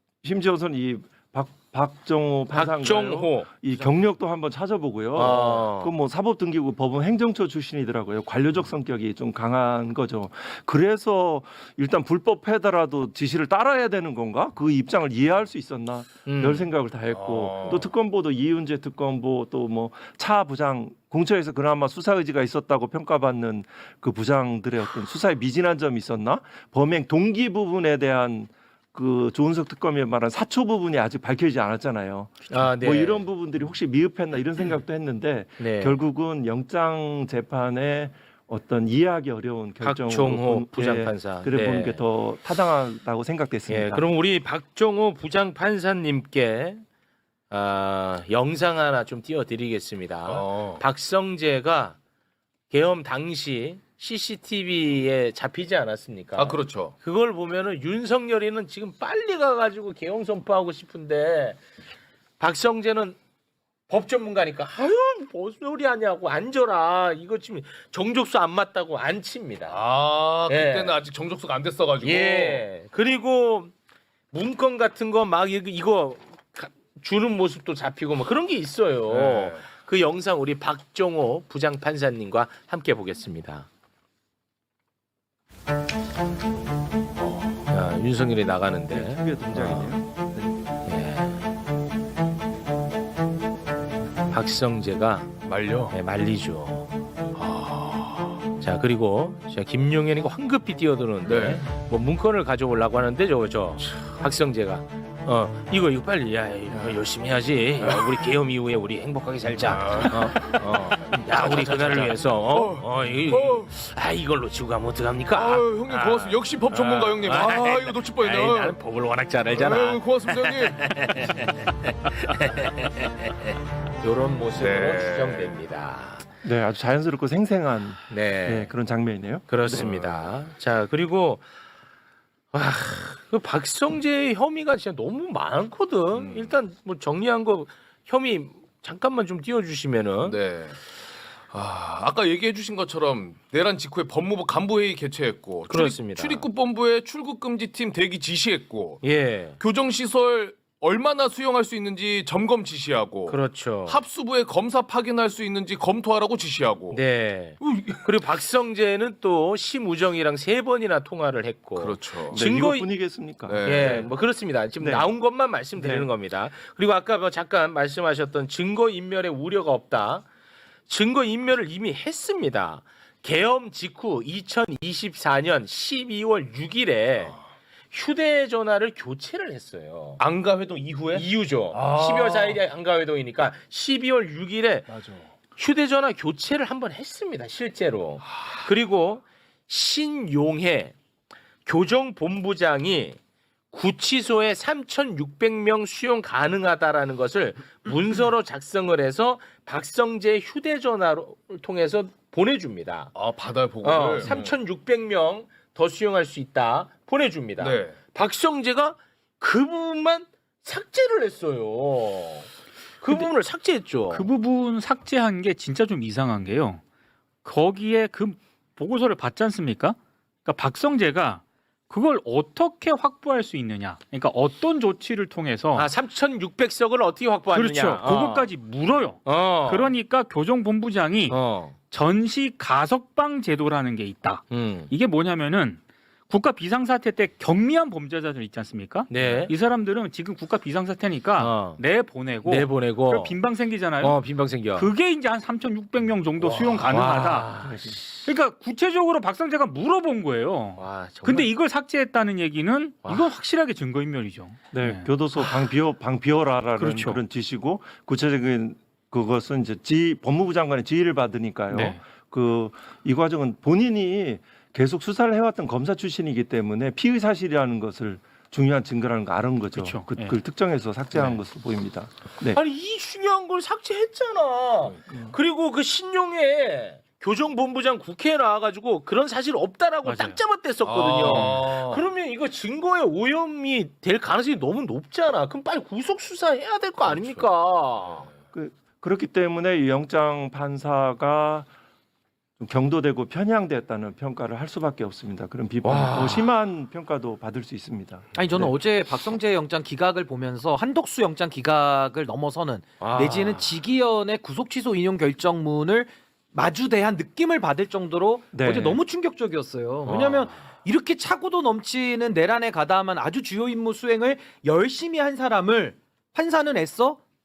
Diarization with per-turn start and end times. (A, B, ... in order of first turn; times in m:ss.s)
0:00.2-0:44.0 A
0:02.5-0:03.5 B
0:05.1-0:05.9 B
0:16.2-0:16.7 B
0:17.1-0:17.8 C
0:32.5-0:33.2 B
0:35.6-0:36.0 B
0:39.8-0:42.0 B
0:43.7-0:46.8 B
0:47.5-0:52.0 B
0:50.3-0:50.8 C
0:52.7-1:01.6 B
0:56.4-0:56.9 C
1:02.4-1:03.2 B
1:03.9-1:09.8 B
1:09.7-1:12.6 C
1:10.5-1:11.0 B
1:12.0-1:13.7 B
1:14.3-1:23.7 B
1:19.1-1:19.7 C
1:27.5-1:30.0 B
1:28.9-1:30.5 A
1:30.8-1:31.4 B
1:34.3-1:35.3 B
1:35.4-1:35.9 C
1:35.9-1:36.9 B
1:37.3-1:38.4 C
1:38.6-2:06.2 B
1:41.2-1:41.6 C
1:47.8-1:48.3 C
1:49.6-1:53.7 C
1:55.3-1:58.8 C
1:59.5-2:01.5 C
2:04.6-2:05.6 C
2:06.4-2:09.9 A
2:08.1-2:08.7 B
2:09.5-2:11.4 B
2:09.7-2:10.3 C
2:12.5-2:20.4 B
2:16.1-2:16.5 C
2:20.2-2:20.8 C
2:21.5-2:29.0 C
2:25.7-2:26.5 B
2:29.0-2:29.6 B
2:29.6-2:37.0 C
2:33.3-2:34.0 B
2:36.9-2:42.9 B
2:37.6-2:38.1 C
2:41.8-2:42.4 C
2:42.3-2:44.0 A
2:43.5-2:44.1 C
2:43.6-2:50.3 B
2:44.8-2:45.1 A
2:45.8-2:46.1 A
2:50.9-2:57.4 B
2:57.9-3:00.2 B
3:00.2-3:02.6 C
3:01.1-3:04.9 B
3:04.9-3:05.3 C
3:05.6-3:11.0 B
3:11.6-3:13.2 B
3:13.7-3:23.1 B
3:23.1-3:24.6 C
3:23.8-3:32.5 B
3:27.6-3:28.0 C
3:33.0-3:34.3 B
3:34.1-3:36.8 D
3:37.4-3:45.9 D
3:45.7-3:48.5 B
3:47.5-3:51.4 D
3:49.2-3:49.9 B
3:51.3-3:51.7 B
3:51.9-4:04.2 D
3:54.5-3:54.9 B
3:59.1-3:59.5 B
4:01.4-4:01.8 B
4:02.4-4:03.4 B
4:04.0-4:04.9 B
4:04.7-4:07.5 D
4:06.4-4:08.3 B
4:07.6-4:08.0 A
4:08.2-4:15.0 D
4:10.8-4:11.5 B
4:13.0-4:13.3 B
4:14.7-4:32.6 A
4:16.8-4:17.2 D
4:21.7-4:22.0 D
4:29.7-4:30.4 D
4:32.5-4:48.3 B
4:35.1-4:35.4 A
4:40.0-4:40.4 D
4:40.8-4:42.1 C
4:41.2-4:41.6 D
4:47.1-4:47.4 C
4:48.5-4:51.7 A
4:52.6-4:58.7 A
4:55.8-4:56.5 B
4:58.4-5:17.2 E
5:03.0-5:03.8 B
5:08.5-5:09.0 A
5:10.0-5:10.6 B